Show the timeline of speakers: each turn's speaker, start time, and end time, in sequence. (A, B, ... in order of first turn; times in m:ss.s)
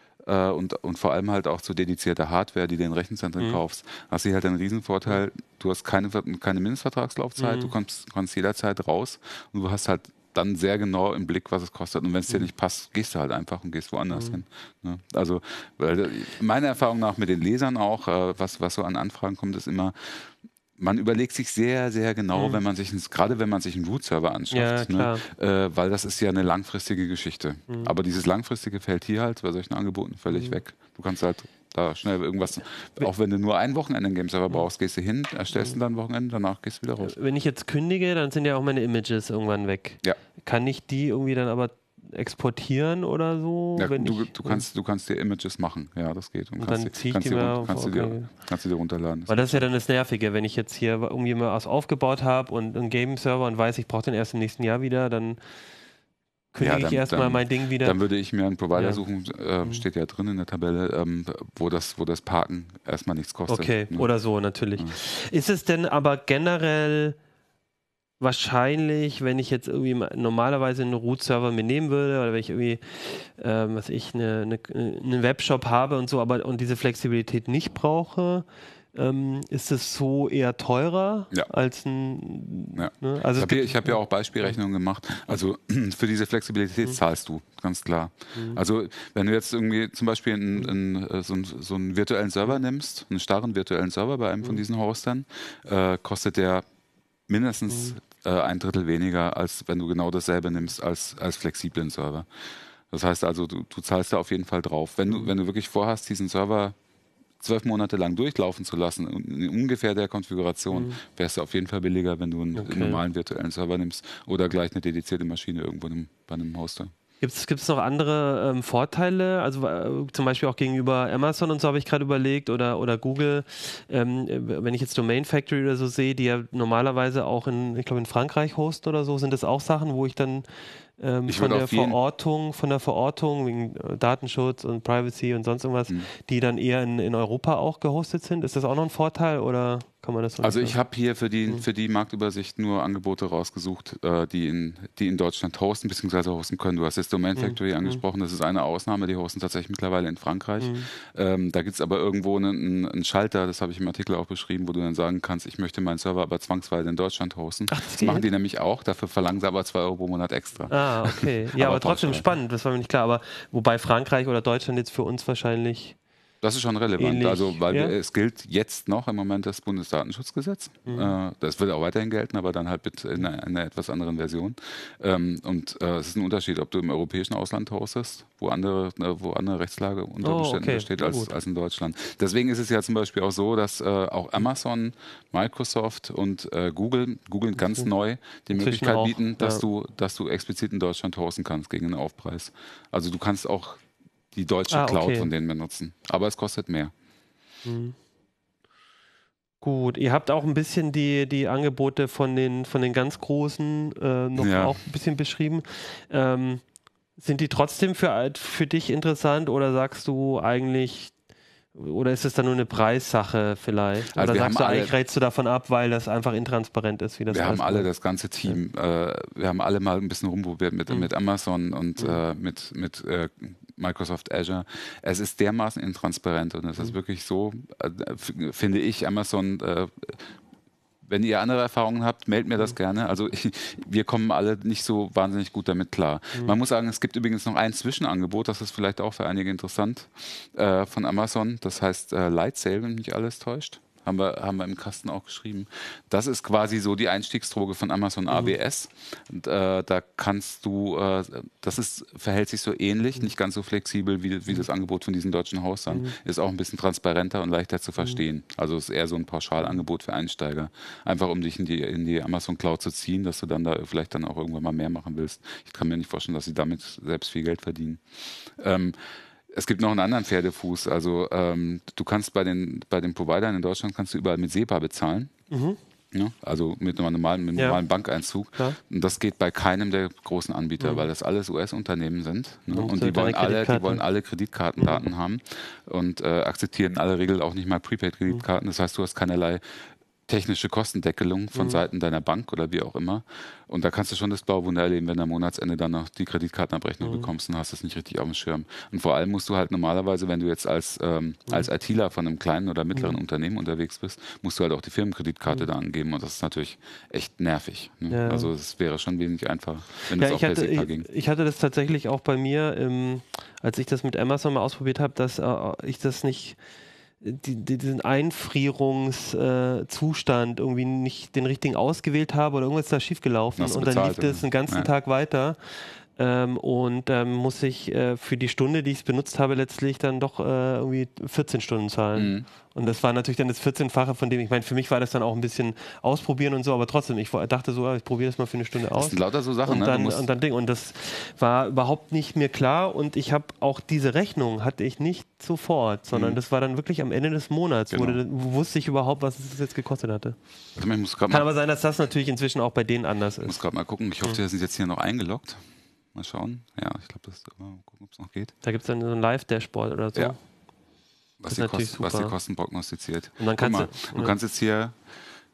0:00.2-0:37.2 A
0:07.4-0:07.7 B
0:14.1-0:14.4 B
0:24.5-0:25.2 B
0:30.3-0:30.6 B
0:37.0-0:44.6 B
0:43.8-0:49.6 A
0:46.6-0:48.3 B
0:49.3-0:55.4 B
0:56.5-0:58.0 B
0:56.6-1:04.1 A
0:58.7-0:59.0 B
1:03.5-1:07.2 B
1:08.2-1:24.0 B
1:22.8-1:36.6 A
1:37.3-1:42.3 A
1:42.9-1:46.8 A
1:47.4-1:56.9 A
1:50.7-1:51.0 B
1:52.6-1:53.0 B
1:57.2-2:10.5 B
2:11.0-2:20.8 B
2:11.3-2:12.0 A
2:20.4-2:42.3 A
2:27.4-2:28.0 B
2:30.6-2:30.9 B
2:37.7-2:38.3 B
2:40.7-2:46.0 B
2:46.4-3:13.8 A
2:47.0-2:48.0 B
2:50.9-2:51.2 B
3:00.2-3:01.3 B
3:08.5-3:09.6 B
3:14.3-3:16.9 A
3:14.7-3:15.3 B
3:17.6-3:18.0 B
3:19.6-3:26.6 B
3:24.4-3:24.8 A
3:27.2-3:31.1 B
3:31.8-3:37.9 B
3:34.1-3:34.9 A
3:37.3-3:50.3 A
3:51.0-4:35.3 A
4:35.5-4:35.8 B
4:36.1-5:11.1 A
4:42.7-4:44.0 B
4:51.6-4:51.8 B
4:57.0-4:57.3 B
5:08.1-5:08.5 B
5:10.2-5:16.6 B
5:17.2-5:50.4 B
5:23.6-5:24.9 A
5:32.2-5:32.5 A
5:39.0-5:40.3 A
5:46.1-5:46.4 A
5:47.9-5:48.2 A
5:50.8-5:51.5 A
5:51.3-5:53.6 B
5:53.4-5:55.6 A
5:56.1-5:58.5 A
5:58.6-6:00.4 B
6:01.4-6:05.0 A
6:01.5-6:02.3 B
6:03.4-6:04.4 B